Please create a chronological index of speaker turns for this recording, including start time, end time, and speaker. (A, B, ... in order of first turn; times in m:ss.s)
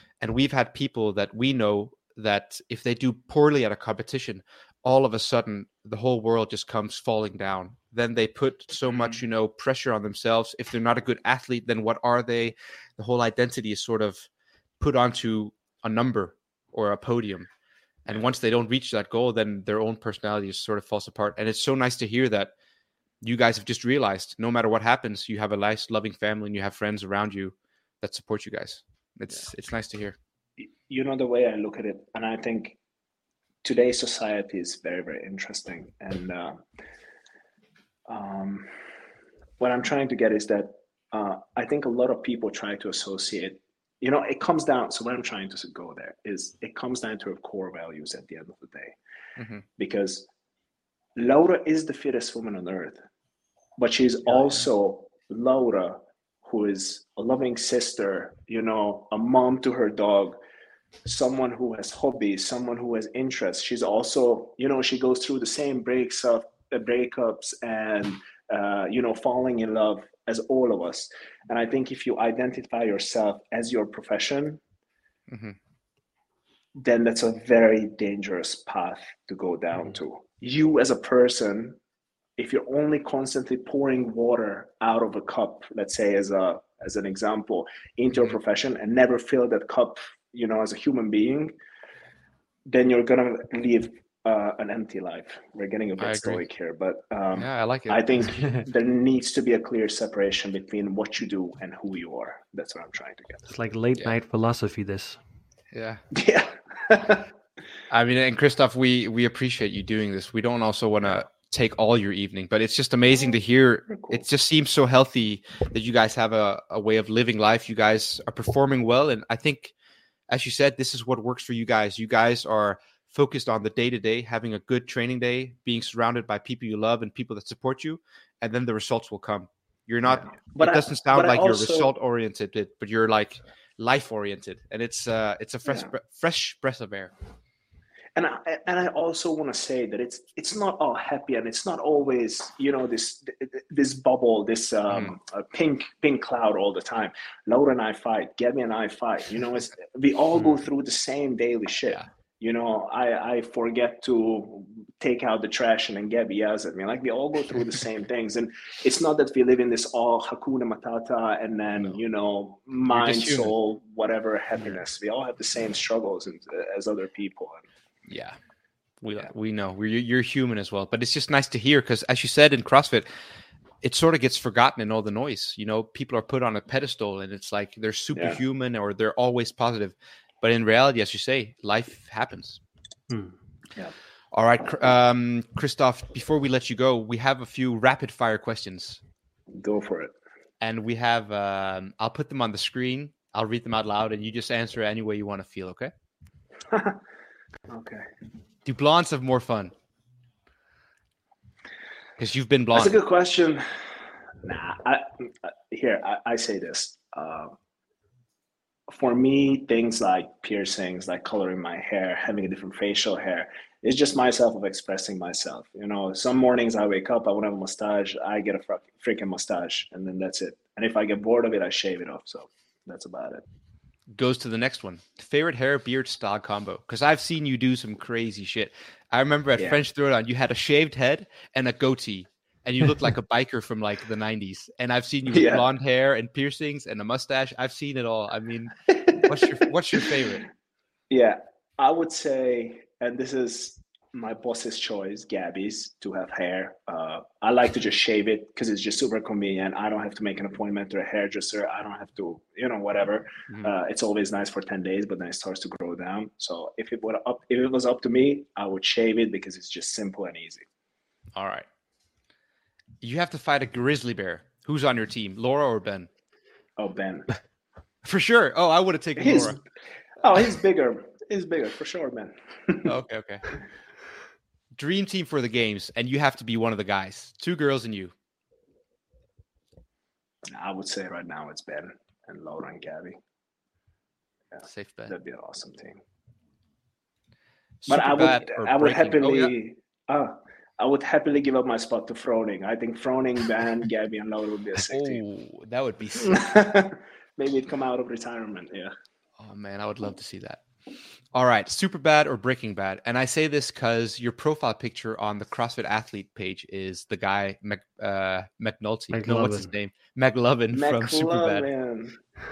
0:00.2-0:14.3 A
0:14.8-0:17.5 A
0:18.0-0:22.5 A
0:23.2-0:30.2 A
0:30.6-0:32.8 B
0:33.6-0:36.6 B
0:38.1-0:38.7 B
0:39.6-0:49.0 B
0:49.4-0:49.6 A
0:49.8-0:50.3 B
0:51.2-0:53.0 B
0:53.8-1:00.4 B
1:01.0-1:14.6 B
1:15.3-1:15.6 A
1:16.8-1:21.8 B
1:22.4-1:31.5 B
1:32.7-1:43.5 B
1:36.0-1:36.4 A
1:37.4-1:38.3 A
1:43.5-1:45.2 C
1:45.7-1:46.0 A
1:46.1-1:47.3 B
1:47.9-1:59.7 A
1:53.9-1:54.2 B
2:00.3-2:17.1 A
2:10.2-2:11.9 B
2:18.2-2:47.6 B
2:42.9-2:43.5 A
2:48.0-2:48.4 A
2:49.0-2:53.1 A
2:53.8-3:02.6 A
2:58.1-2:58.4 B
3:03.1-3:03.4 C
3:04.3-3:09.0 A
3:09.5-3:10.1 B
3:10.6-3:15.9 A
3:16.7-3:17.0 B
3:17.7-3:18.0 B
3:18.6-3:19.7 A
3:22.2-3:23.0 A
3:22.7-3:27.5 B
3:28.9-3:43.4 B
3:44.1-4:00.5 A
3:55.3-3:55.6 B
3:58.9-4:00.2 B
4:01.1-4:20.7 B
4:21.3-4:21.7 A
4:23.0-4:26.1 A
4:26.8-4:27.3 B
4:28.0-4:29.6 A
4:29.2-4:29.6 B
4:30.2-4:32.9 B
4:32.8-4:33.5 A
4:34.7-4:38.1 A
4:40.5-4:43.2 B
4:44.5-4:46.0 B
4:44.6-4:45.1 A
4:47.8-4:49.5 A
4:47.9-4:55.2 B
4:54.7-4:56.4 A
4:56.2-4:58.9 B
4:59.4-5:00.6 A
5:01.3-5:11.7 A
5:09.1-5:09.7 C
5:10.7-5:12.2 B